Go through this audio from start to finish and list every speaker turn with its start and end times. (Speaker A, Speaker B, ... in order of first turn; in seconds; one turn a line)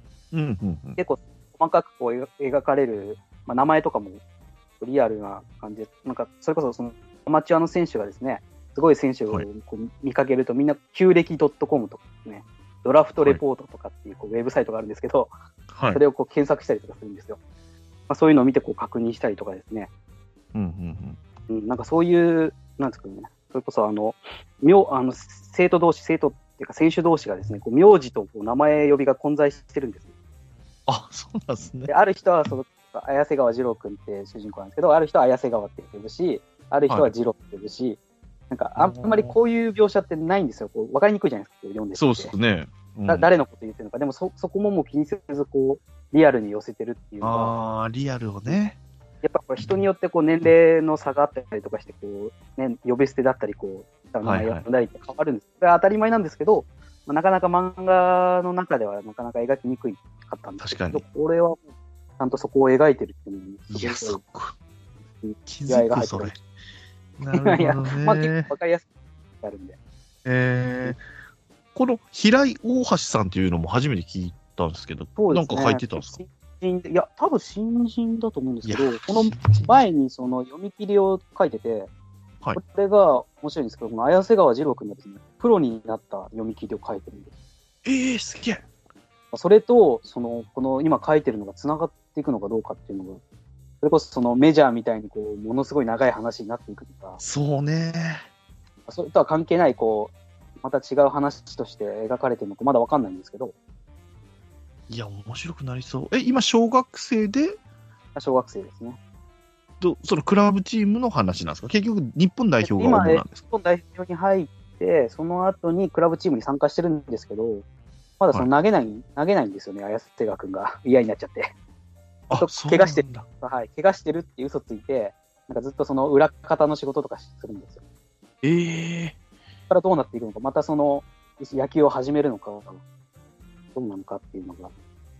Speaker A: 0.3-1.0
Speaker B: 1.0-4.2
Speaker B: 4.8-15.3
Speaker A: 15.7-16.0
Speaker B: 15.9-17.4
Speaker B: 18.1-19.9
Speaker A: 20.5-21.2
Speaker B: 21.5-30.1
Speaker A: 30.9-31.9
Speaker B: 31.9-38.0
Speaker B: 38.5-42.3
Speaker A: 38.8-39.3
Speaker A: 42.0-43.3
Speaker B: 43.0-47.5
Speaker A: 47.2-48.8
Speaker B: 49.2-61.7
Speaker A: 54.2-54.6
Speaker A: 60.6-61.0
Speaker B: 62.2-64.2
Speaker A: 63.7-64.5
Speaker B: 65.1-66.3
Speaker A: 65.5-66.4
Speaker A: 67.2-68.5
Speaker B: 67.3-68.9
Speaker B: 69.4-69.8
Speaker A: 70.2-71.0
Speaker A: 71.7-76.2
Speaker B: 75.2-81.9
Speaker A: 78.6-79.8
Speaker B: 82.5-87.3
Speaker A: 87.8-88.6
Speaker B: 89.3-93.2
Speaker B: 93.8-97.2
Speaker A: 97.2-98.2
Speaker B: 98.9-103.5
Speaker A: 104.9-107.6
Speaker B: 108.1-109.0
Speaker A: 109.8-113.4
Speaker B: 112.6-117.6
Speaker B: 118.2-121.5
Speaker A: 122.3-123.2
Speaker B: 122.3-127.8
Speaker A: 128.4-129.2
Speaker B: 129.7-132.8
Speaker B: 133.7-134.7